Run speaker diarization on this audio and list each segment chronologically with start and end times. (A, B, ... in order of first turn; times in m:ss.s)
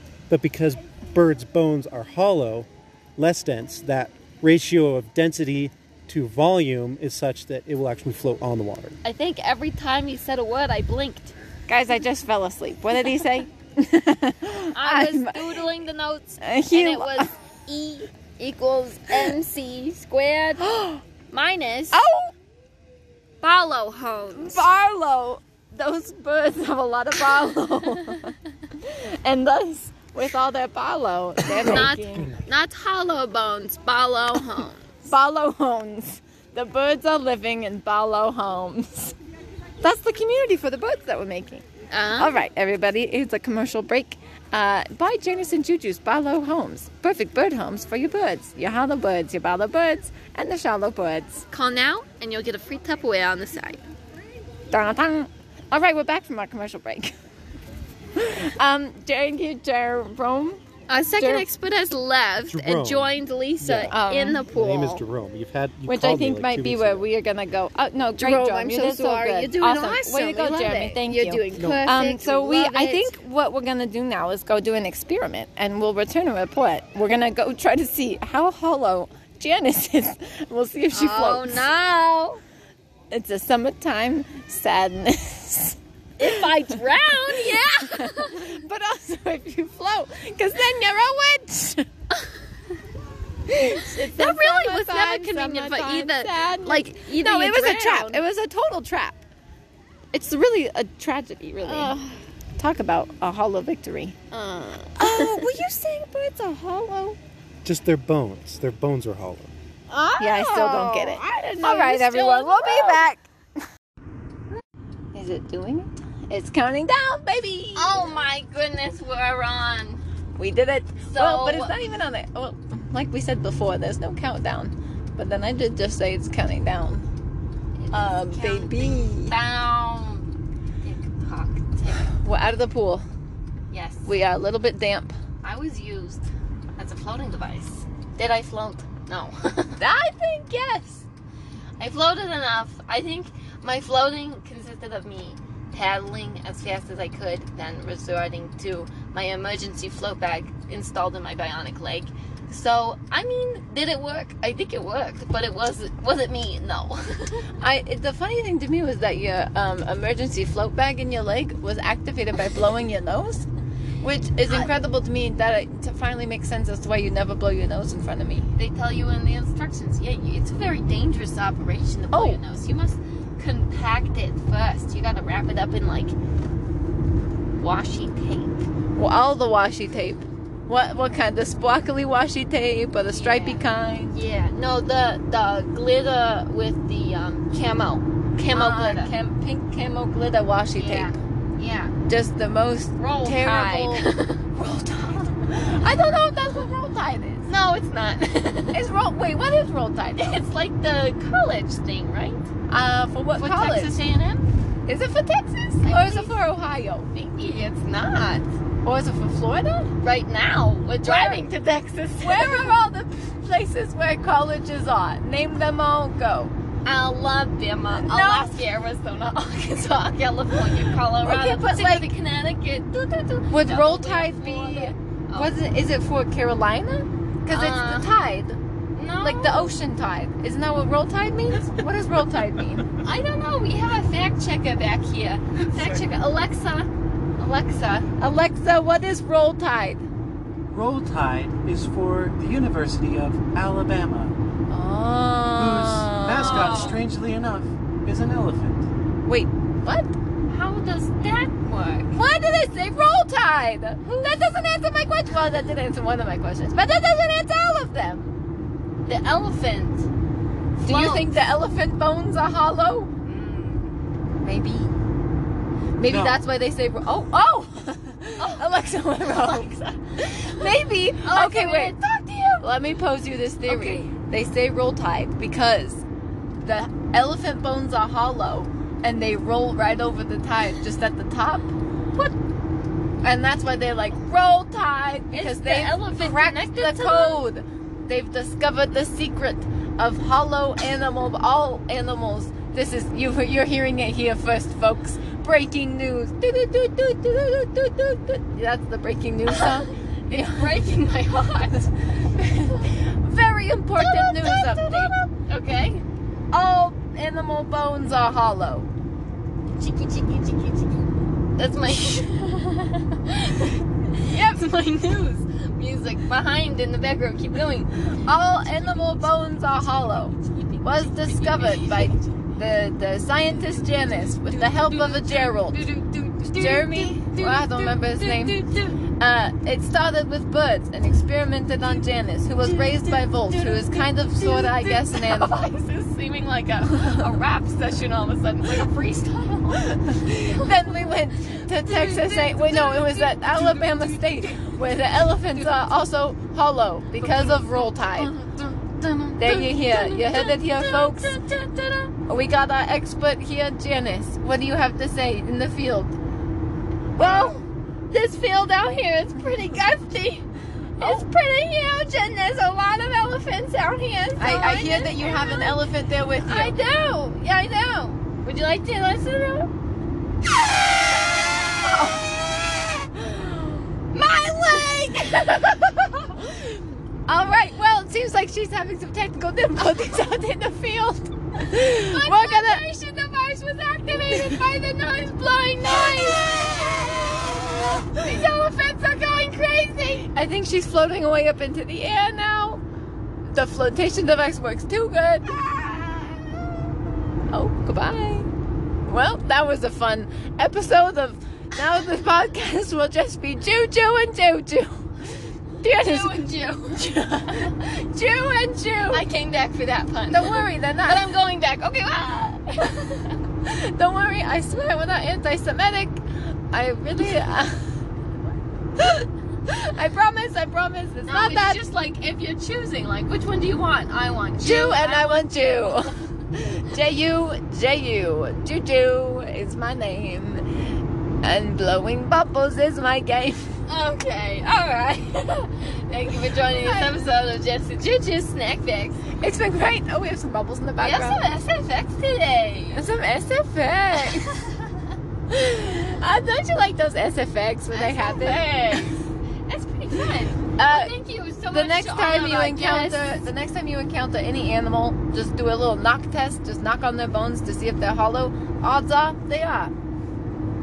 0:00.3-0:09.0 A
0:09.0-0:11.3 B
0:11.7-0:15.6 C
0:14.7-0:20.6 B
0:16.4-0:17.3 C
0:20.6-0:21.0 C
0:21.3-0:22.0 B
0:21.9-0:22.3 C
0:23.4-0:24.7 B
0:24.4-0:32.3 C
0:31.5-0:35.1 B
0:35.1-0:39.2 C
0:39.8-0:41.6 C
0:41.9-0:42.4 B
0:42.2-0:51.4 C
0:51.5-0:53.8 B
0:54.7-0:57.1 C
0:58.2-1:00.6 C
1:00.9-1:05.0 B
1:01.1-1:01.5 C
1:02.5-1:04.0 A
1:03.9-1:04.5 C
1:04.5-1:07.1 A
1:05.9-1:21.6 C
1:08.2-1:13.2 B
1:11.6-1:11.9 A
1:20.9-1:22.4 B
1:23.1-1:26.8 C
1:26.2-1:28.6 B
1:27.4-1:31.8 C
1:33.5-1:39.2 C
1:33.8-1:38.2 B
1:40.1-1:42.0 C
1:41.6-1:42.2 B
1:42.6-1:44.2 C
1:44.3-1:45.5 B
1:45.0-1:47.2 C
1:47.6-1:49.5 A
1:49.9-1:53.0 B
1:50.2-1:53.3 C
1:55.1-1:58.2 C
1:57.8-2:00.0 B
2:00.4-2:07.1 C
2:01.0-2:01.8 B
2:07.8-2:10.3 B
2:07.9-2:09.4 C
2:10.8-2:12.1 B
2:12.2-2:13.0 C
2:13.7-2:14.1 B
2:14.1-2:15.2 C
2:15.4-2:16.3 B
2:16.8-2:19.8 B
2:19.8-2:21.0 C
2:21.8-2:37.5 B
2:37.6-2:43.5 C
2:44.0-2:48.5 C
2:44.5-2:44.8 B
2:48.6-2:56.2 B
2:52.1-2:52.4 C
2:57.6-2:58.7 B
2:59.0-3:04.2 C
3:03.0-3:09.1 B
3:08.4-3:11.1 C
3:10.8-3:11.9 B
3:12.1-3:17.5 C
3:13.0-3:14.4 B
3:15.8-3:16.1 B
3:17.5-3:18.8 B
3:18.7-3:20.4 C
3:20.2-3:22.5 B
3:22.7-3:24.0 C
3:23.4-3:24.5 B
3:24.9-3:27.4 C
3:25.8-3:26.3 B
3:27.4-3:28.4 B
3:28.8-3:29.9 C
3:30.0-3:32.7 B
3:31.0-3:31.5 C
3:32.2-3:36.5 C
3:36.8-3:45.5 B
3:37.9-3:38.6 C
3:41.2-3:42.1 C
3:43.5-3:48.6 C
3:47.5-3:48.1 B
3:49.0-3:49.7 B
3:49.2-3:52.9 C
3:53.0-3:58.1 B
3:58.2-4:00.0 C
4:00.7-4:04.4 A
4:04.7-4:07.0 C
4:05.6-4:08.9 A
4:06.3-4:07.0 B
4:09.2-4:10.1 C
4:10.5-4:12.2 B
4:12.1-4:18.3 C
4:14.0-4:14.6 B
4:19.0-4:20.1 B
4:20.8-4:21.4 B
4:20.8-4:23.1 C
4:23.2-4:23.9 B
4:24.4-4:24.9 C
4:26.0-4:32.0 C
4:26.0-4:26.4 A
4:28.4-4:32.7 B
4:32.6-4:36.0 C
4:33.6-4:34.1 B
4:36.6-4:41.7 C
4:43.2-5:00.8 C
4:45.3-4:47.5 B
4:59.5-5:01.9 B
5:01.7-5:05.1 C
5:04.0-5:06.0 B
5:06.5-5:08.9 C
5:09.8-5:22.2 B
5:18.2-5:25.8 C
5:23.8-5:29.0 B
5:26.5-5:28.6 C
5:29.2-5:35.6 C
5:32.6-5:44.7 B
5:39.9-5:48.3 C
5:45.5-5:45.9 B
5:47.2-5:52.1 B
5:49.4-5:51.4 C
5:52.3-5:56.2 C
5:57.2-6:00.4 B
5:57.2-5:57.6 C
6:01.0-6:09.7 B
6:01.0-6:01.3 C
6:04.4-6:06.8 C
6:11.5-6:12.1 B
6:11.8-6:12.3 C
6:14.1-6:16.5 B
6:17.3-6:22.8 C
6:21.7-6:30.3 B
6:24.1-6:24.6 C
6:25.9-6:26.4 C
6:27.7-6:28.4 C
6:30.3-6:32.8 C
6:33.5-6:36.1 C
6:37.5-6:38.5 C
6:39.1-6:45.0 C
6:45.8-6:49.2 C
6:45.8-6:47.8 B
6:49.1-6:53.4 B
6:50.3-6:51.3 C
6:53.6-6:57.8 C
6:59.0-7:01.8 C
7:01.3-7:05.9 B
7:04.6-7:10.7 C
7:11.4-7:13.8 C
7:13.9-7:19.2 B
7:16.5-7:17.3 C
7:19.4-7:21.5 C
7:21.0-7:23.0 B
7:22.9-7:24.6 C
7:24.2-7:25.0 B
7:25.5-7:29.0 C
7:27.9-7:33.4 B
7:30.7-7:31.1 C
7:31.7-7:39.9 C